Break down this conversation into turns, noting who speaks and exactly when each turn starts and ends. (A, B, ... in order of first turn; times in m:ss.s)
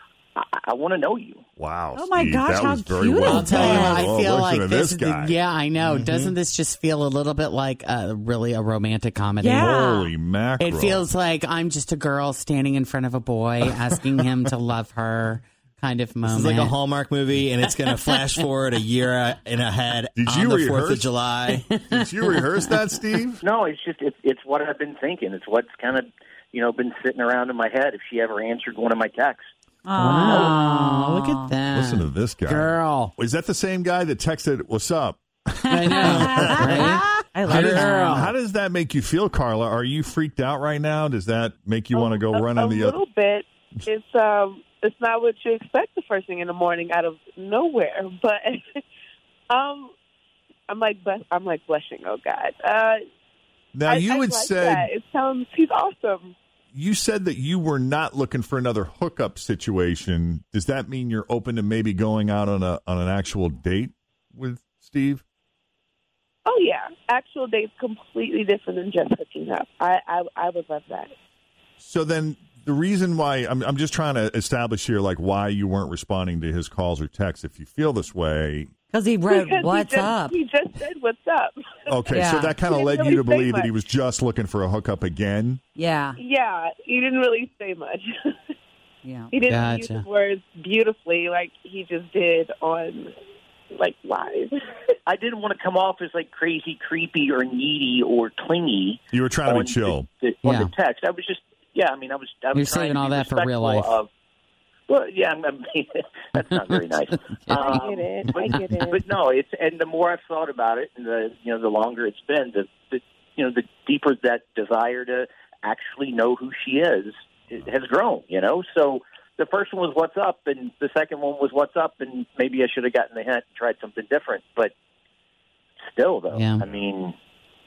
0:00.4-0:01.4 A
0:01.6-0:05.4 B
0:01.9-0:04.0 C
0:03.2-0:09.7 D
0:05.8-0:06.4 E
0:09.4-0:10.1 C
0:09.5-0:11.1 B
0:10.6-0:16.8 D
0:16.2-0:21.6 E
0:17.6-0:18.5 D
0:20.2-0:21.1 B
0:21.5-0:23.1 D
0:21.9-0:23.4 B
0:23.4-0:29.4 A
0:29.8-0:31.5 C
0:30.0-0:33.1 D
0:31.7-0:36.9 B
0:35.7-0:38.3 D
0:35.9-0:38.2 C
0:37.4-0:43.0 B
0:41.9-0:48.8 F
0:49.5-0:49.9 F
0:50.7-0:53.0 F
0:53.7-0:54.9 B
0:53.9-0:56.3 F
0:56.7-1:05.2 B
1:06.4-1:11.1 F
1:11.8-1:18.7 B
1:18.9-1:20.4 C
1:19.2-1:23.7 F
1:21.9-1:25.6 B
1:22.1-1:22.5 C
1:25.8-1:26.2 C
1:26.2-1:28.0 F
1:29.0-1:29.5 C
1:29.3-1:33.1 F
1:29.5-1:30.0 D
1:33.7-1:34.5 F
1:35.0-1:44.1 A
1:39.1-1:40.1 B
1:40.4-1:40.7 D
1:42.5-1:44.0 D
1:44.9-2:04.7 A
1:47.5-1:49.0 F
1:48.2-1:48.6 D
2:05.8-2:07.1 A
2:06.3-2:06.7 D